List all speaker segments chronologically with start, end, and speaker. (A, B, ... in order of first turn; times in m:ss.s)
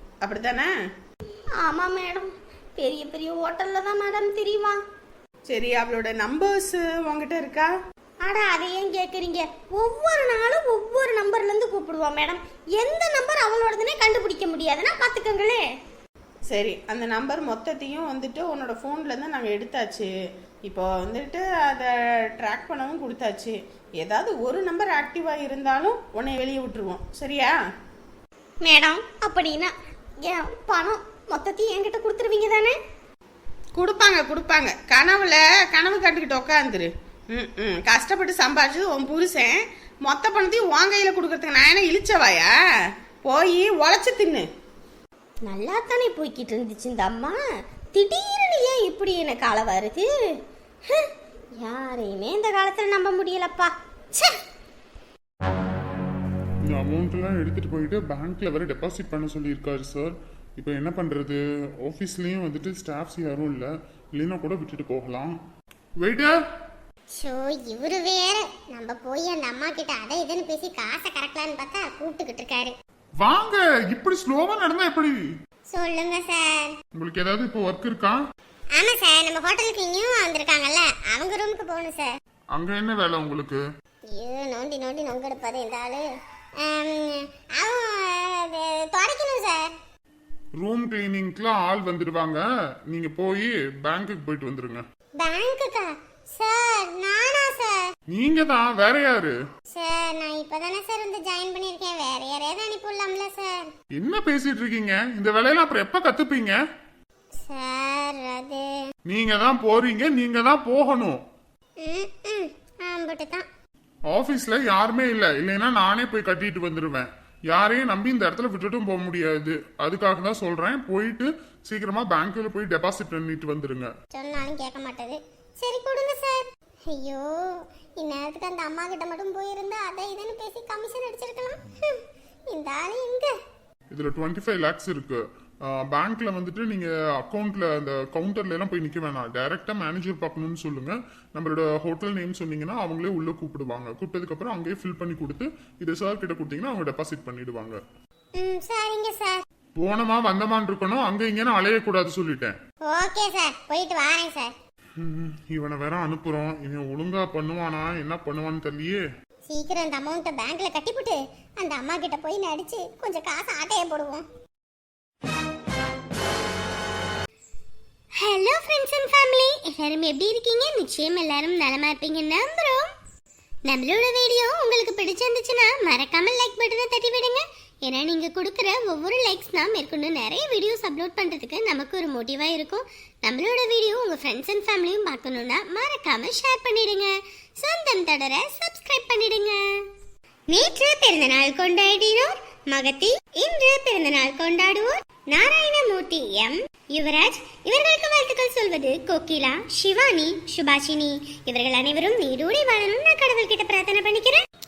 0:00.2-0:00.7 A
0:01.6-0:04.8 B
0:05.5-0:07.7 A
0:08.2-0:15.6 B
0:16.5-0:20.1 A
0:20.6-0:27.5 A
0:28.6-0:29.7 B
0:30.2-0:32.8 B
0:33.7-0:42.5 A
0:43.2-0:44.4 A
0:45.4-0:47.4 B
0:47.9-0:50.1 B
0:50.9-0:54.4 B
0:56.6-1:05.3 C
1:06.0-1:06.4 C
1:07.1-1:12.7 D
1:13.2-1:15.1 C
1:15.7-1:16.7 D
1:16.9-1:18.2 C
1:18.8-1:22.1 D
1:22.5-1:23.6 C
1:24.1-1:26.1 D
1:26.6-1:29.7 D
1:30.6-1:34.8 C
1:35.2-1:37.9 D
1:38.1-1:39.3 C
1:39.7-1:43.7 D
1:43.9-1:46.6 C
1:47.5-1:48.7 D
1:49.1-1:51.2 C
1:51.8-1:53.4 D
1:54.1-2:03.9 C
2:04.1-2:13.3 D
2:13.9-2:27.8 C
2:28.4-2:29.4 D
2:29.8-2:32.6 C
2:32.8-2:34.5 D
2:35.0-2:39.0 C
2:39.5-2:44.2 D
2:48.2-2:52.9 D
2:53.6-3:09.8 D
3:10.5-3:24.4 D